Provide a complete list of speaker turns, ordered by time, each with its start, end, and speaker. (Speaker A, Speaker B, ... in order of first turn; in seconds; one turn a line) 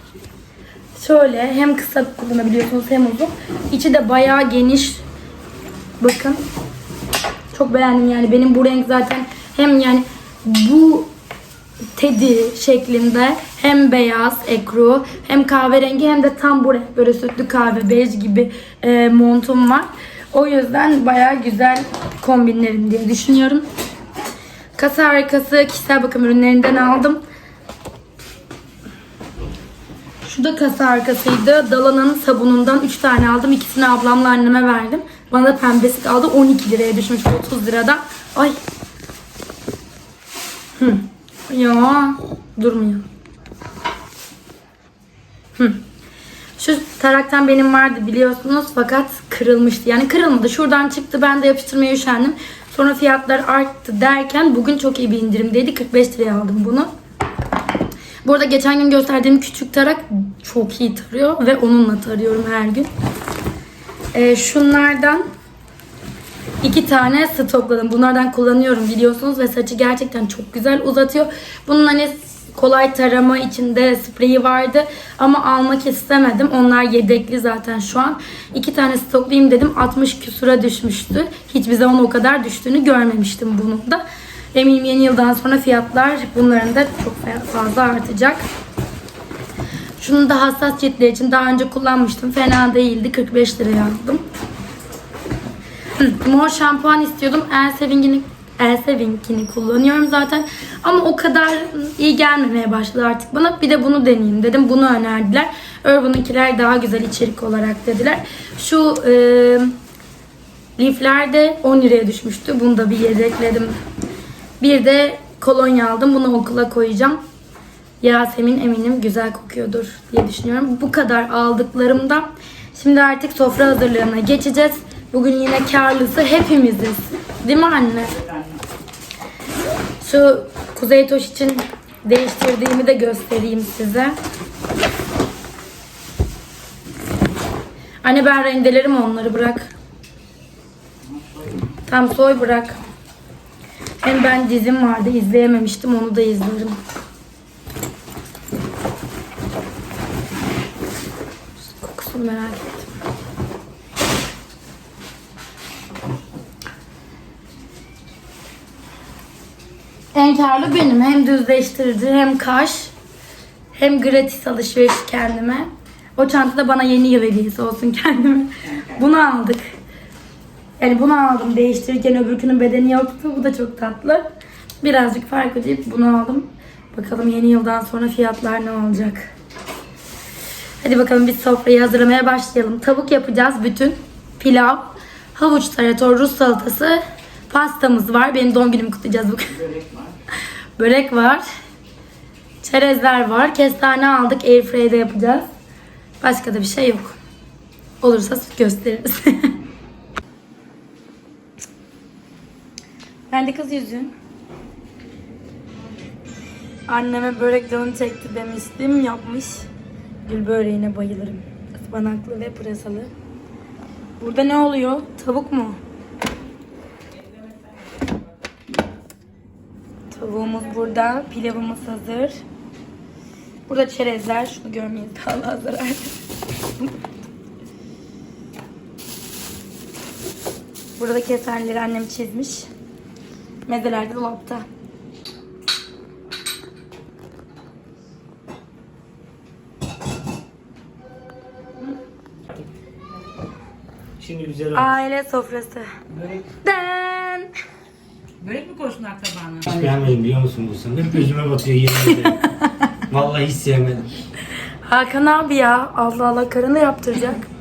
Speaker A: 0.9-5.0
Speaker A: 6.0-6.4
Speaker A: 7.5-11.1
Speaker A: 11.9-23.7
Speaker A: 24.8-27.2
Speaker A: 30.2-38.6
Speaker A: 40.8-43.0
Speaker A: 45.5-45.8
Speaker A: 46.6-56.9
Speaker A: 58.2-62.9
Speaker A: 64.1-65.2
Speaker A: 66.6-88.4
Speaker A: 90.0-94.3
Speaker A: 96.0-109.7
Speaker A: 110.8-113.8
Speaker A: 114.6-117.2
Speaker A: 118.0-128.2
Speaker A: 130.0-134.2
Speaker A: 138.0-139.7
Speaker A: 141.9-142.8
Speaker A: 144.0-146.8
Speaker A: 151.7-152.9
Speaker A: 160.1-162.9
Speaker A: 163.7-169.7
Speaker A: 170.8-174.3
Speaker A: 174.8-179.3
Speaker A: 180.8-189.6
Speaker B: 189.6-190.1
Speaker A: 190.8-191.4
Speaker A: 192.6-195.5
Speaker A: 196.2-197.2
Speaker A: 198.0-199.5
Speaker A: 203.3-204.1
Speaker A: 206.9-209.7
Speaker A: 210.2-213.1
Speaker A: 214.2-215.8
Speaker A: 220.1-222.4
Speaker A: 223.7-226.1
Speaker A: 231.0-232.7
Speaker A: 233.7-234.7
Speaker C: 244.2-244.9
Speaker A: 244.7-245.9
Speaker A: 246.6-247.5
Speaker B: 248.4-250.1
Speaker C: 249.7-252.4
Speaker A: 252.1-252.9
Speaker C: 253.1-254.1
Speaker A: 254.8-257.5